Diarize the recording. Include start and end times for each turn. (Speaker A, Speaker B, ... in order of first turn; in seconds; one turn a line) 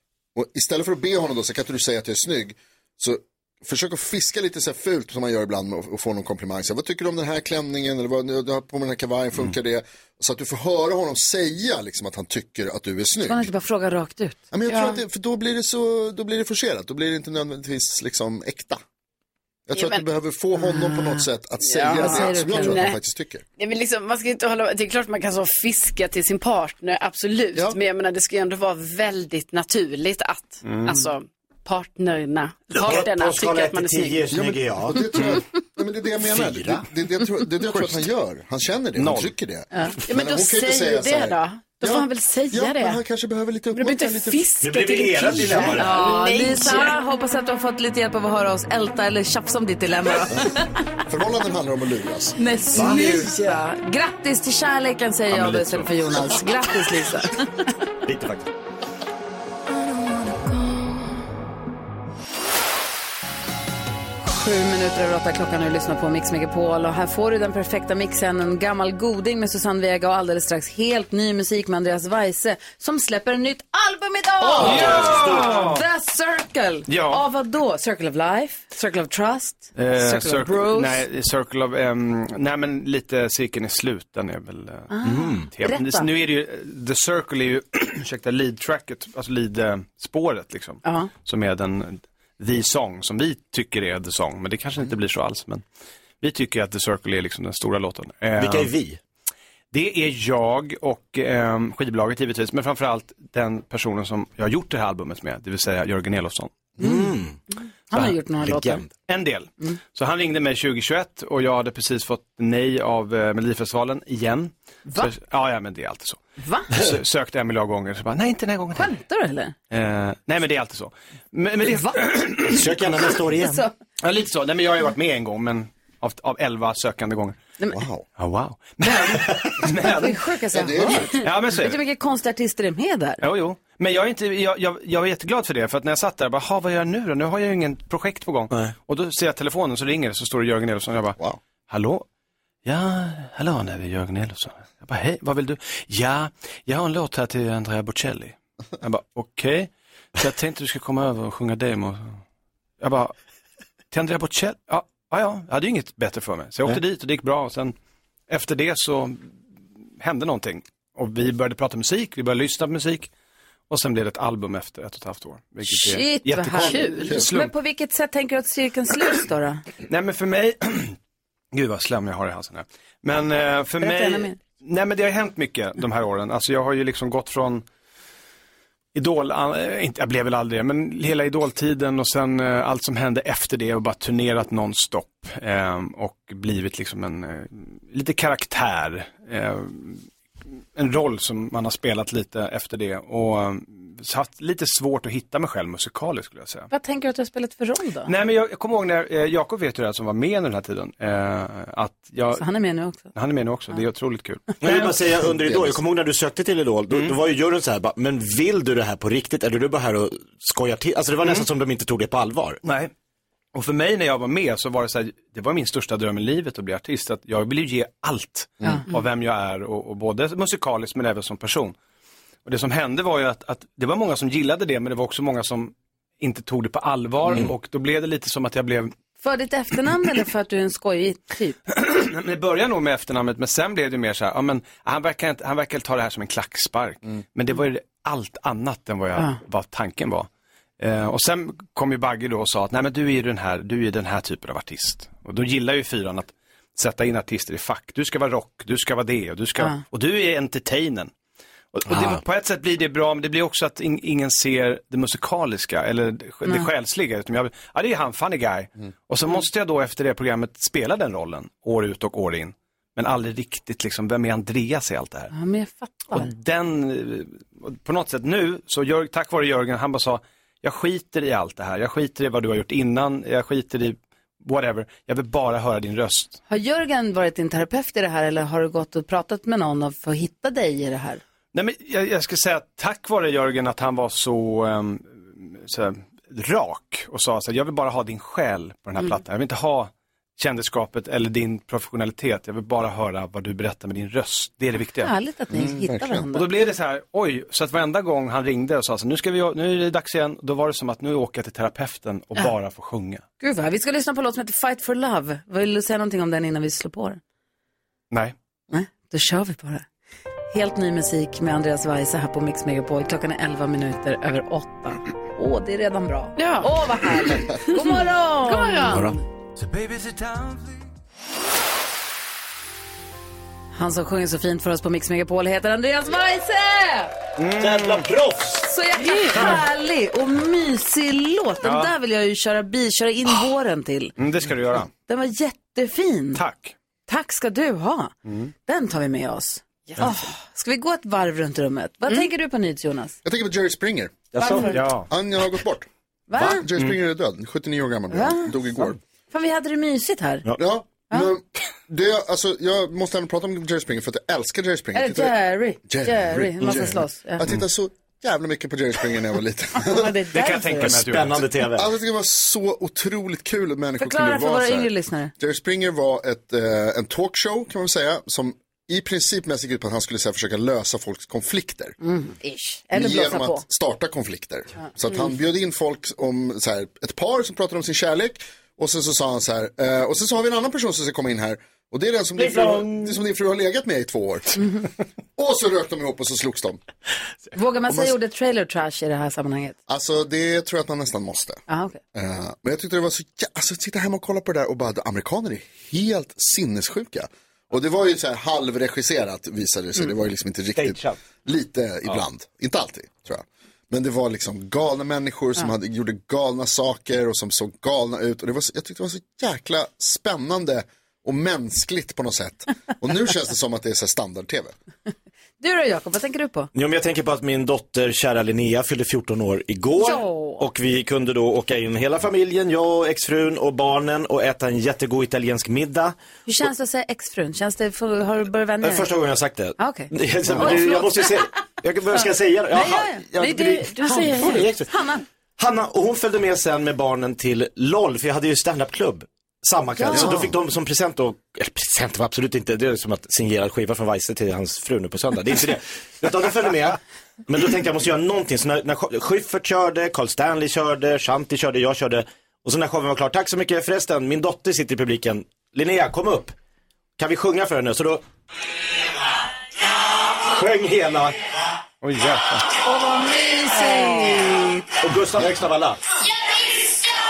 Speaker A: 0.3-13.5
Speaker B: 13.2-14.4
Speaker A: 14.5-18.8
Speaker C: 14.7-15.0
Speaker A: 19.7-23.4
Speaker C: 19.7-20.0
Speaker B: 20.6-21.2
Speaker C: 21.6-23.0
Speaker B: 21.9-22.8
Speaker C: 23.6-34.2
Speaker D: 30.6-31.0
Speaker E: 32.7-35.3
Speaker A: 34.3-44.4
Speaker E: 36.2-36.9
Speaker D: 38.9-39.3
Speaker C: 40.0-43.0
Speaker C: 43.7-46.9
Speaker E: 44.6-46.2
Speaker B: 45.7-50.7
Speaker A: 51.1-52.4
Speaker B: 52.4-57.4
Speaker E: 52.7-53.3
Speaker E: 55.3-56.1
Speaker E: 58.0-58.5
Speaker B: 59.9-60.8
Speaker B: 64.2-81.0
Speaker A: 74.4-75.3
Speaker E: 74.6-75.5
Speaker D: 74.6-75.8
Speaker D: 76.9-77.2
Speaker D: 79.8-95.6
Speaker B: 84.9-86.1
Speaker E: 85.0-85.5
Speaker B: 90.8-91.1
Speaker D: 96.2-98.7
Speaker E: 98.4-99.0
Speaker D: 99.7-106.6
Speaker E: 106.8-107.4
Speaker B: 106.8-107.1
Speaker B: 107.9-108.8
Speaker E: 108.4-108.9
Speaker D: 109.0-118.9
Speaker B: 116.4-116.7
Speaker B: 118.7-119.5
Speaker D: 119.7-122.6
Speaker B: 121.6-122.0
Speaker E: 122.5-123.6
Speaker B: 123.4-123.7
Speaker D: 124.0-127.4
Speaker A: 127.7-128.1
Speaker D: 128.2-130.3
Speaker B: 130.0-133.2
Speaker A: 130.5-131.2
Speaker D: 131.2-131.8
Speaker D: 133.2-142.1
Speaker D: 142.6-152.2
Speaker D: 152.8-153.1
Speaker D: 153.9-157.7
Speaker D: 158.3-159.3
Speaker D: 160.0-163.1
Speaker D: 163.7-167.5
Speaker B: 165.7-169.6
Speaker A: 166.6-167.2
Speaker D: 169.9-170.9
Speaker D: 171.5-177.7
Speaker B: 173.8-174.4
Speaker D: 178.9-190.1
Speaker D: 190.7-196.7
Speaker B: 196.7-198.1
Speaker D: 198.0-202.5
Speaker B: 202.4-203.1
Speaker D: 203.1-204.9
Speaker E: 204.6-212.6
Speaker D: 206.9-207.2
Speaker D: 212.6-212.9
Speaker D: 213.5-221.7
Speaker D: 222.4-228.9
Speaker B: 229.2-231.6
Speaker D: 231.7-251.1
Speaker D: 251.7-265.3
Speaker E: 251.9-252.2
Speaker B: 265.3-266.3
Speaker D: 266.1-276.4
Speaker B: 276.5-281.2
Speaker D: 281.5-295.1
Speaker B: 295.0-296.5
Speaker A: 295.5-296.3
Speaker D: 296.3-303.2
Speaker B: 303.4-307.2
Speaker B: 308.7-309.9
Speaker B: 310.5-319.0
Speaker C: 316.4-319.1
Speaker B: 323.7-327.1
Speaker D: 327.4-328.1
Speaker E: 327.6-328.6
Speaker B: 328.6-334.1
Speaker C: 329.0-329.6
Speaker D: 331.6-331.9
Speaker D: 334.2-334.9
Speaker B: 335.1-336.4
Speaker D: 336.3-336.7
Speaker B: 337.1-338.1
Speaker D: 338.2-338.5
Speaker B: 338.6-343.1
Speaker A: 343.2-344.3
Speaker E: 344.3-344.8
Speaker B: 344.4-344.8
Speaker D: 344.7-345.1
Speaker A: 345.1-349.0
Speaker B: 346.3-346.7
Speaker B: 348.1-348.5
Speaker B: 349.3-350.4
Speaker A: 350.6-355.3
Speaker B: 354.9-357.5
Speaker A: 355.9-360.2
Speaker B: 359.7-361.0
Speaker D: 360.3-361.5
Speaker E: 360.8-361.9
Speaker A: 361.7-371.9
Speaker B: 364.0-365.3
Speaker B: 372.0-373.6
Speaker A: 372.9-384.6
Speaker A: 385.4-386.8
Speaker B: 387.5-389.8
Speaker A: 387.9-388.1
Speaker A: 389.9-391.6
Speaker B: 391.7-392.0
Speaker A: 392.1-414.7
Speaker E: 400.8-401.2
Speaker B: 415.6-416.7
Speaker E: 416.7-426.1
Speaker B: 419.9-420.6
Speaker B: 426.5-429.1
Speaker E: 428.8-434.9
Speaker B: 429.8-431.3
Speaker B: 432.7-433.3
Speaker C: 433.4-434.6
Speaker B: 434.0-435.2
Speaker E: 435.6-456.5
Speaker B: 440.0-440.4
Speaker E: 457.2-458.2
Speaker E: 460.3-461.3
Speaker D: 462.0-462.7
Speaker B: 462.8-464.7
Speaker E: 465.0-466.0